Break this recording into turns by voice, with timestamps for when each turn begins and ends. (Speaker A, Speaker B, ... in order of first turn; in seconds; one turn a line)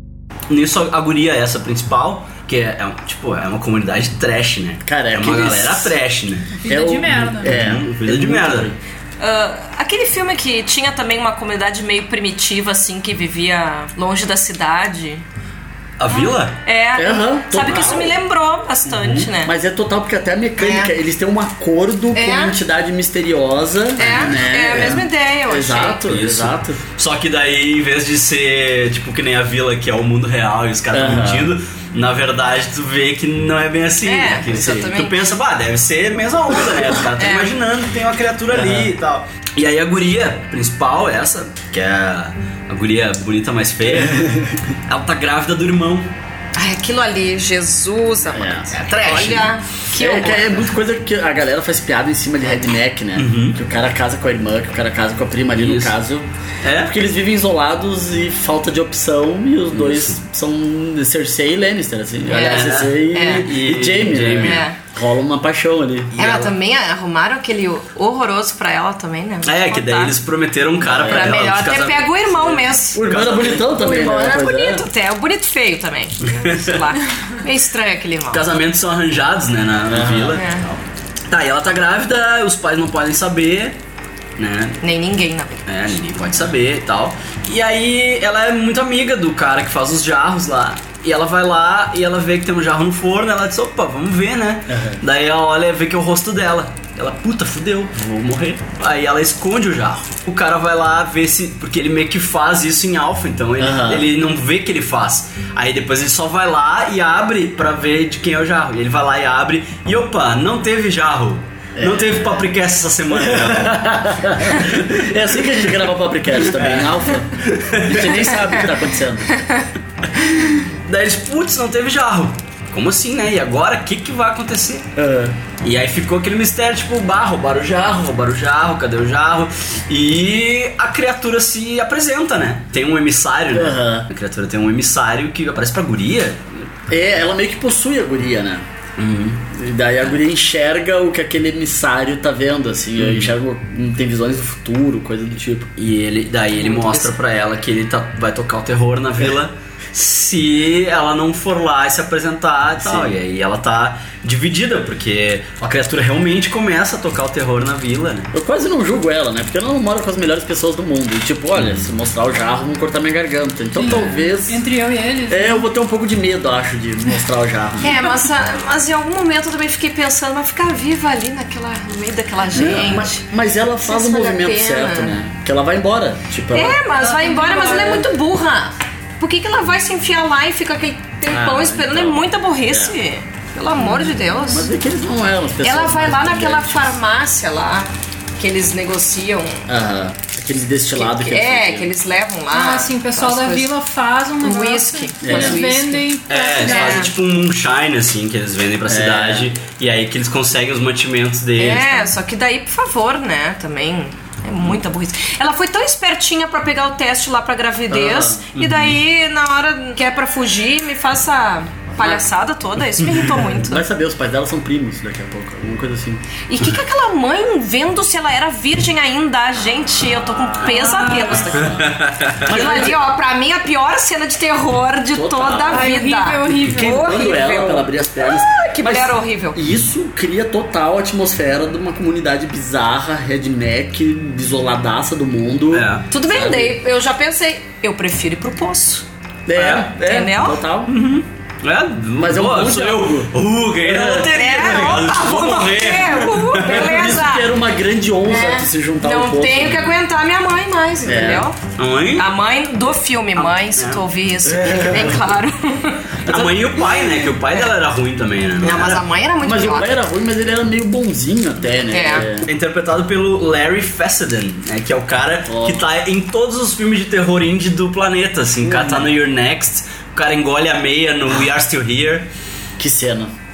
Speaker A: 0.5-6.5
Speaker B: 4.8-6.0
Speaker C: 6.6-7.5
Speaker B: 6.7-8.8
Speaker A: 7.4-8.7
Speaker D: 9.2-15.2
Speaker A: 16.0-16.6
Speaker D: 16.1-19.5
Speaker B: 17.0-18.2
Speaker A: 19.0-19.3
Speaker B: 19.3-26.8
Speaker D: 20.6-20.9
Speaker D: 22.1-22.6
Speaker D: 24.0-26.0
Speaker A: 24.0-24.3
Speaker A: 26.1-46.1
Speaker B: 30.9-31.5
Speaker D: 34.0-35.2
Speaker D: 37.2-37.5
Speaker B: 38.5-38.9
Speaker B: 43.9-44.6
Speaker D: 46.6-50.5
Speaker B: 48.3-48.7
Speaker A: 48.7-49.5
Speaker B: 49.9-66.2
Speaker A: 53.2-53.6
Speaker A: 55.6-55.9
Speaker A: 56.6-56.9
Speaker A: 59.7-60.2
Speaker D: 62.3-63.5
Speaker A: 62.4-64.7
Speaker D: 64.4-64.8
Speaker A: 66.1-66.5
Speaker D: 66.2-70.2
Speaker A: 69.5-73.7
Speaker B: 70.8-71.5
Speaker D: 71.0-78.4
Speaker B: 72.9-74.8
Speaker A: 76.3-76.8
Speaker A: 78.3-83.8
Speaker B: 79.9-80.4
Speaker D: 80.3-80.7
Speaker A: 84.4-84.8
Speaker D: 84.8-85.7
Speaker A: 85.7-115.0
Speaker B: 94.7-95.0
Speaker B: 103.6-104.1
Speaker B: 111.8-112.4
Speaker B: 113.1-117.3
Speaker A: 116.5-118.3
Speaker B: 117.9-119.4
Speaker A: 120.9-124.9
Speaker B: 125.0-125.4
Speaker A: 125.6-136.5
Speaker B: 133.5-134.1
Speaker B: 136.9-138.7
Speaker A: 139.0-139.4
Speaker B: 139.5-145.7
Speaker A: 143.0-143.3
Speaker A: 145.8-158.3
Speaker B: 146.7-147.1
Speaker B: 152.8-153.1
Speaker B: 158.3-164.6
Speaker A: 161.6-161.9
Speaker C: 163.8-165.7
Speaker B: 165.3-167.9
Speaker D: 167.8-173.2
Speaker B: 172.5-176.8
Speaker D: 173.8-175.2
Speaker D: 176.5-184.7
Speaker C: 177.0-178.1
Speaker B: 181.3-182.9
Speaker B: 183.9-187.0
Speaker D: 185.6-189.6
Speaker B: 189.7-191.9
Speaker D: 190.9-193.7
Speaker C: 192.5-197.1
Speaker D: 194.4-197.1
Speaker B: 195.2-195.6
Speaker A: 196.3-202.1
Speaker B: 198.9-199.5
Speaker D: 201.6-213.8
Speaker B: 207.9-208.5
Speaker A: 208.6-209.0
Speaker B: 212.0-212.2
Speaker B: 213.4-216.2
Speaker D: 216.5-221.7
Speaker C: 220.7-221.4
Speaker B: 221.0-223.0
Speaker A: 221.7-222.5
Speaker D: 222.5-229.6
Speaker B: 225.1-236.8
Speaker C: 225.7-227.3
Speaker A: 235.7-236.1
Speaker D: 236.1-239.1
Speaker B: 239.5-240.9
Speaker A: 239.6-239.9
Speaker D: 240.0-240.6
Speaker A: 240.9-246.8
Speaker B: 242.2-244.3
Speaker D: 244.3-247.5
Speaker B: 246.6-249.9
Speaker D: 248.2-251.6
Speaker B: 251.0-251.5
Speaker A: 251.8-252.3
Speaker D: 252.2-256.1
Speaker A: 253.4-254.0
Speaker B: 254.5-255.2
Speaker B: 256.2-257.3
Speaker A: 256.3-259.0
Speaker D: 258.6-260.0
Speaker B: 259.4-262.5
Speaker D: 261.9-262.3
Speaker A: 262.5-272.3
Speaker B: 265.5-265.9
Speaker B: 268.6-269.1
Speaker B: 272.8-273.3